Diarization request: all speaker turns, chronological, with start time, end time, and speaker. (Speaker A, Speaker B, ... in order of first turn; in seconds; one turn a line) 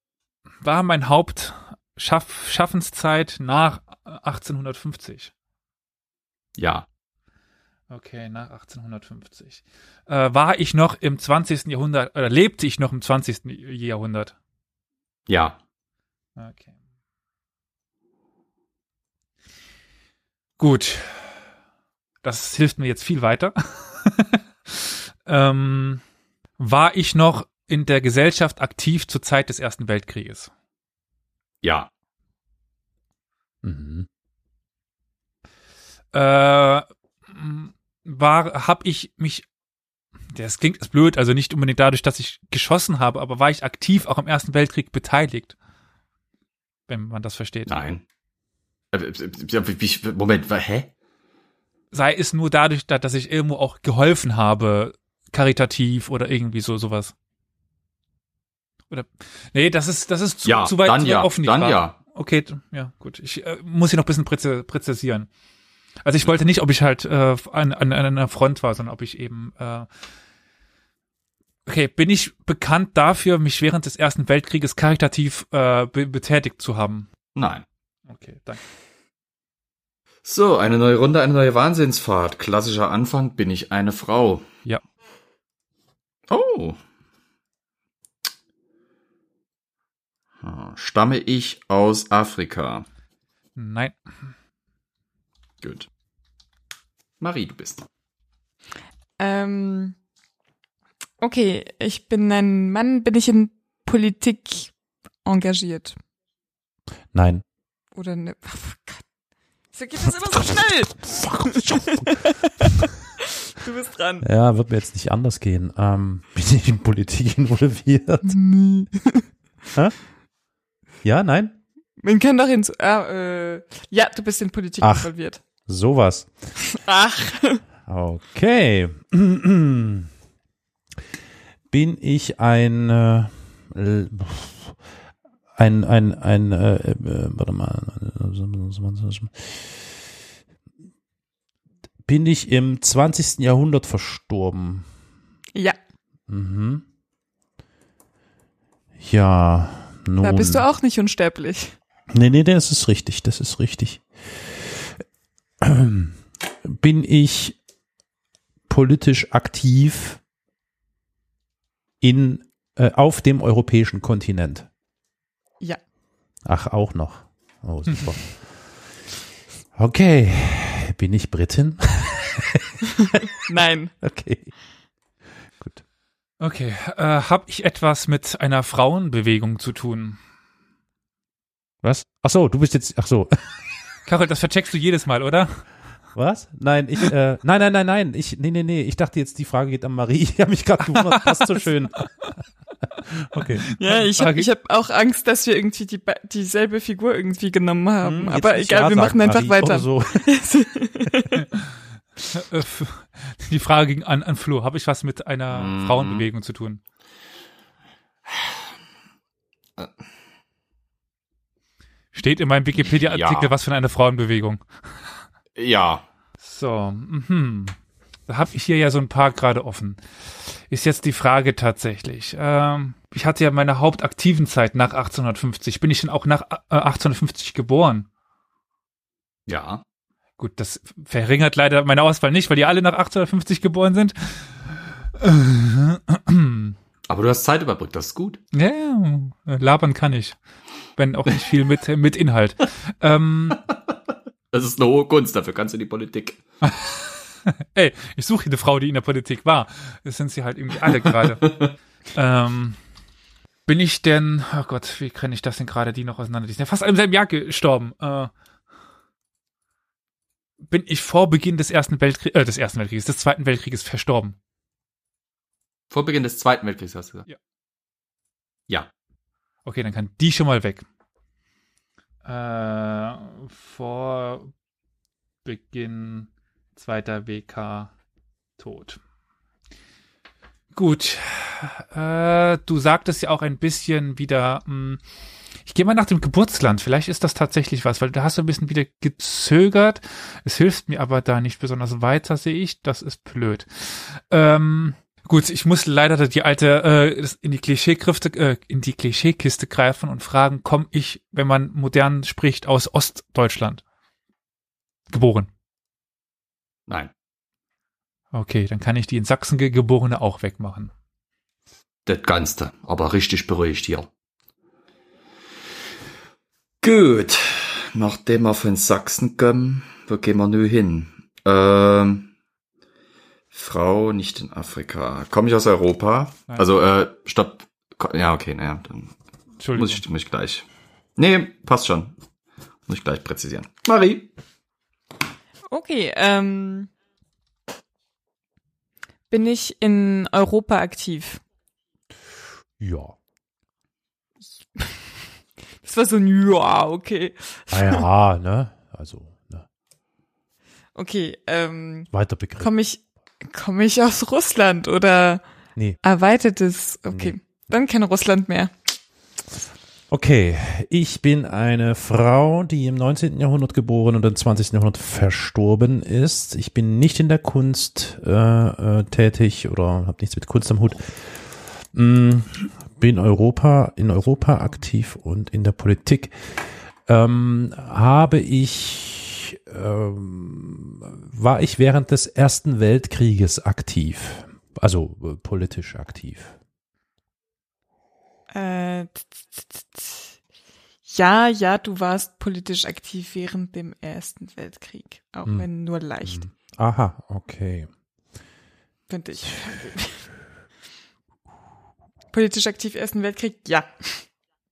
Speaker A: 0.6-5.3
Speaker B: 6.6-6.8
Speaker A: 7.9-14.3
Speaker B: 15.3-15.6
Speaker A: 16.4-16.7
Speaker A: 20.6-21.3
Speaker A: 22.2-26.0
Speaker A: 26.6-30.5
Speaker B: 31.6-31.9
Speaker C: 33.6-34.1
Speaker A: 36.1-39.5
Speaker A: 40.3-45.5
Speaker A: 46.9-47.7
Speaker B: 47.7-48.0
Speaker B: 48.9-50.9
Speaker A: 51.9-57.1
Speaker A: 58.9-65.3
Speaker B: 60.4-61.9
Speaker A: 66.0-69.9
Speaker A: 71.7-77.1
Speaker B: 77.3-77.6
Speaker A: 78.1-78.6
Speaker B: 80.2-84.5
Speaker B: 86.3-86.8
Speaker B: 90.4-92.8
Speaker A: 93.5-94.0
Speaker B: 95.6-95.9
Speaker B: 97.2-97.9
Speaker D: 99.2-100.0
Speaker D: 101.2-106.0
Speaker C: 107.1-107.4
Speaker D: 107.9-109.0
Speaker D: 109.7-112.7
Speaker C: 110.3-112.7
Speaker D: 113.5-114.2
Speaker C: 114.2-118.3
Speaker D: 118.2-119.2
Speaker C: 121.0-121.5
Speaker D: 122.0-125.4
Speaker C: 124.8-125.1
Speaker C: 125.7-126.3
Speaker D: 126.7-127.6
Speaker C: 127.8-130.1
Speaker C: 131.7-134.7
Speaker C: 135.6-139.6
Speaker C: 142.1-144.8
Speaker C: 146.3-146.8
Speaker C: 149.0-150.6
Speaker D: 150.2-151.7
Speaker C: 152.1-154.0
Speaker C: 155.6-157.6
Speaker C: 158.7-160.2
Speaker C: 162.0-164.7
Speaker C: 166.4-168.5
Speaker C: 169.8-173.2
Speaker D: 173.4-173.9
Speaker C: 174.0-174.5
Speaker A: 176.4-180.2
Speaker C: 181.8-183.4
Speaker A: 184.1-185.6
Speaker C: 186.1-192.0
Speaker C: 193.1-193.7
Speaker A: 193.4-194.5
Speaker D: 193.8-201.5
Speaker C: 198.0-200.3
Speaker A: 202.3-206.8
Speaker B: 205.5-206.2
Speaker B: 208.3-208.5
Speaker A: 212.1-214.6
Speaker B: 212.8-213.5
Speaker B: 215.5-216.0
Speaker A: 216.4-217.7
Speaker A: 218.3-220.0
Speaker A: 220.7-228.1
Speaker B: 229.5-229.8
Speaker A: 230.4-234.5
Speaker A: 235.2-236.8
Speaker B: 237.1-238.4
Speaker A: 238.5-240.3
Speaker A: 240.9-243.6
Speaker B: 244.5-246.4
Speaker A: 246.6-251.6
Speaker B: 251.2-251.7
Speaker A: 252.1-252.8
Speaker A: 253.7-258.3
Speaker A: 260.7-264.4
Speaker B: 265.9-267.2
Speaker A: 269.6-270.8
Speaker A: 272.2-274.5
Speaker A: 275.4-277.9
Speaker A: 278.6-279.0
Speaker A: 280.7-285.0
Speaker A: 285.7-303.8
Speaker A: 305.1-305.5
Speaker B: 306.9-307.1
Speaker A: 308.3-310.9
Speaker B: 312.1-314.1
Speaker B: 316.8-322.3
Speaker B: 323.5-329.1
Speaker A: 329.6-330.0
Speaker B: 329.7-330.6
Speaker B: 331.2-332.1
Speaker B: 332.9-334.3
Speaker D: 335.7-336.9
Speaker D: 339.3-341.4
Speaker C: 342.8-343.1
Speaker D: 345.8-348.0
Speaker C: 347.7-349.6
Speaker D: 350.9-355.4
Speaker C: 352.1-352.7
Speaker D: 356.0-358.7
Speaker C: 357.1-357.3
Speaker C: 360.1-371.2
Speaker C: 371.9-376.3
Speaker C: 377.1-386.5
Speaker D: 388.5-390.2
Speaker D: 391.1-396.4
Speaker C: 396.2-397.9
Speaker D: 399.1-400.2
Speaker D: 402.3-404.2